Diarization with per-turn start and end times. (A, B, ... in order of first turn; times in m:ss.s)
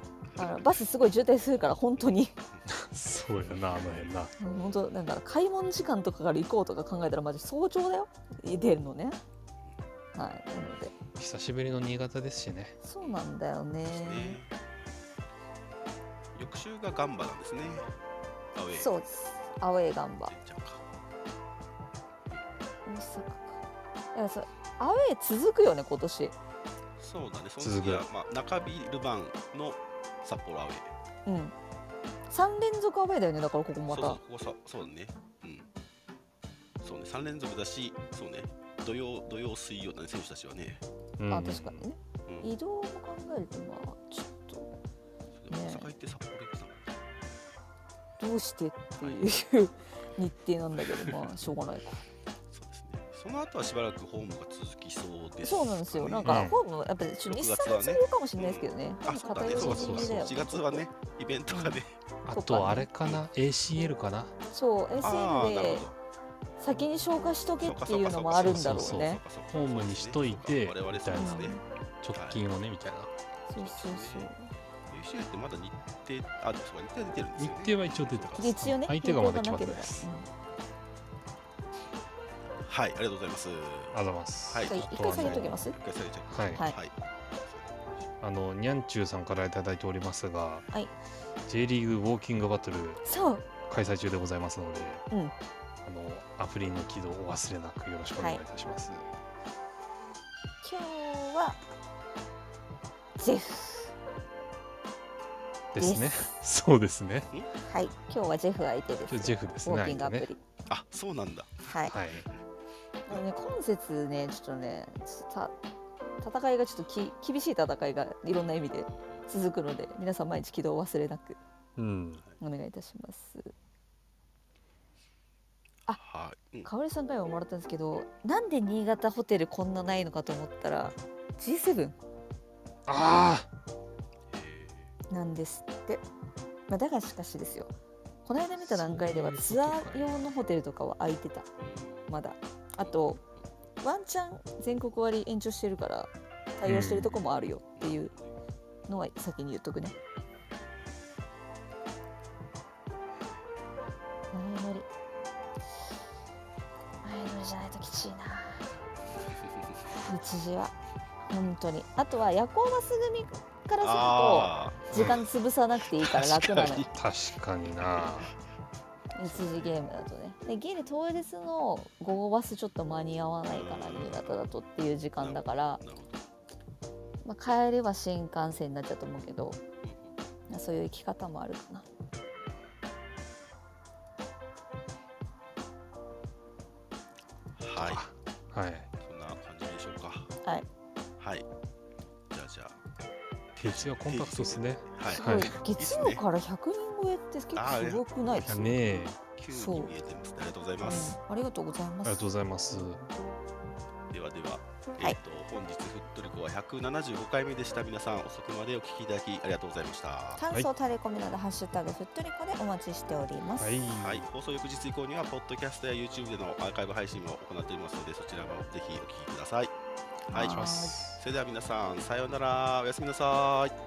0:00.4-0:00.6 A
0:00.4-0:02.3 B
0:02.7-0:04.3 C
0:04.4-0:09.2 B
0:10.1-0:10.9 B
0:11.2-0:12.8 C
0:12.8-0:14.4 B
0:13.9-0:14.5 A
0:16.3-0:17.9 A
0:18.5-0:18.9 A
0:18.8-0:20.3 B
0:20.2-0:20.8 A
0:22.8-0:23.6 B
0:24.1-0:26.3 B
0:27.0-0:30.9 A
0:27.6-0:28.0 C
0:31.2-0:31.5 B
0:32.3-0:34.2 B
0:33.9-0:35.7 A
0:36.8-0:40.8 A
0:41.2-0:41.7 C
0:41.3-0:44.7 B
0:42.2-0:42.5 A
0:45.4-0:47.0 A
0:45.5-0:45.9 B
0:48.2-0:52.0 B
0:50.8-0:51.3 A
0:52.5-0:56.5 A
0:55.4-1:00.8 B
0:56.2-0:56.6 C
0:57.2-1:01.9 A
0:59.5-1:00.3 C
1:01.5-1:01.8 B
1:02.2-1:04.3 C
1:02.3-1:02.9 B
1:04.5-1:05.8 B
1:05.0-1:06.0 A
1:06.6-1:09.2 B
1:07.6-1:11.6 A
1:08.4-1:13.1 C
1:11.2-1:11.6 B
1:12.1-1:12.4 A
1:13.5-1:14.5 B
1:13.6-1:14.3 A
1:14.9-1:18.5 A
1:17.4-1:20.1 C
1:18.4-1:20.3 B
1:22.6-1:24.0 A
1:23.9-1:25.6 C
1:24.5-1:28.0 A
1:24.6-1:25.8 B
1:26.3-1:26.6 C
1:28.2-1:30.6 C
1:31.5-1:33.0 C
1:33.0-1:33.4 B
1:33.6-1:35.0 C
1:35.8-1:39.0 C
1:40.6-1:41.6 B
1:43.2-1:43.9 B
1:45.7-1:47.3 C
1:45.8-1:46.3 B
1:47.7-1:50.4 B
1:49.1-1:50.3 C
1:50.7-1:52.0 A
1:51.7-1:51.9 B
1:51.9-1:52.2 C
1:53.1-1:55.5 B
1:56.2-2:01.4 B
2:01.8-2:02.2 C
2:02.4-2:03.5 B
2:06.0-2:06.7 A
2:06.6-2:12.0 B
2:12.9-2:13.5 C
2:14.3-2:14.9 A
2:15.1-2:16.0 B
2:16.7-2:17.7 B
2:18.2-2:21.5 B
2:18.6-2:20.3 C
2:21.6-2:22.1 A
2:22.1-2:23.2 B
2:23.8-2:28.1 B
2:26.6-2:27.2 C
2:27.8-2:28.4 A
2:28.9-2:30.0 B
2:34.3-2:34.9 B
2:37.0-2:38.7 B
2:40.0-2:40.7 B
2:41.3-2:46.9 B
2:43.8-2:45.2 A
2:46.0-2:46.8 A
2:46.8-2:48.3 C
2:49.2-2:55.8 B
2:49.2-2:49.7 A
2:53.5-2:54.4 A
2:55.2-2:56.2 A
2:57.2-2:59.6 B
2:59.8-3:00.2 A
3:00.5-3:01.8 B
3:07.6-3:08.0 A
3:07.8-3:08.9 C
3:09.0-3:10.3 A
3:11.2-3:11.5 A
3:12.3-3:12.8 A
3:13.6-3:15.6 C
3:13.6-3:16.2 A
3:15.0-3:18.8 B
3:17.5-3:18.5 A
3:18.4-3:19.2 C
3:19.4-3:21.2 A
3:19.5-3:19.9 B
3:20.8-3:22.3 B
3:22.0-3:23.0 C
3:24.1-3:30.4 A
3:30.4-3:33.7 B
3:33.6-3:34.2 C
3:33.9-3:39.7 A
3:40.3-3:43.7 A
3:40.3-3:41.0 B
3:40.3-3:41.2 C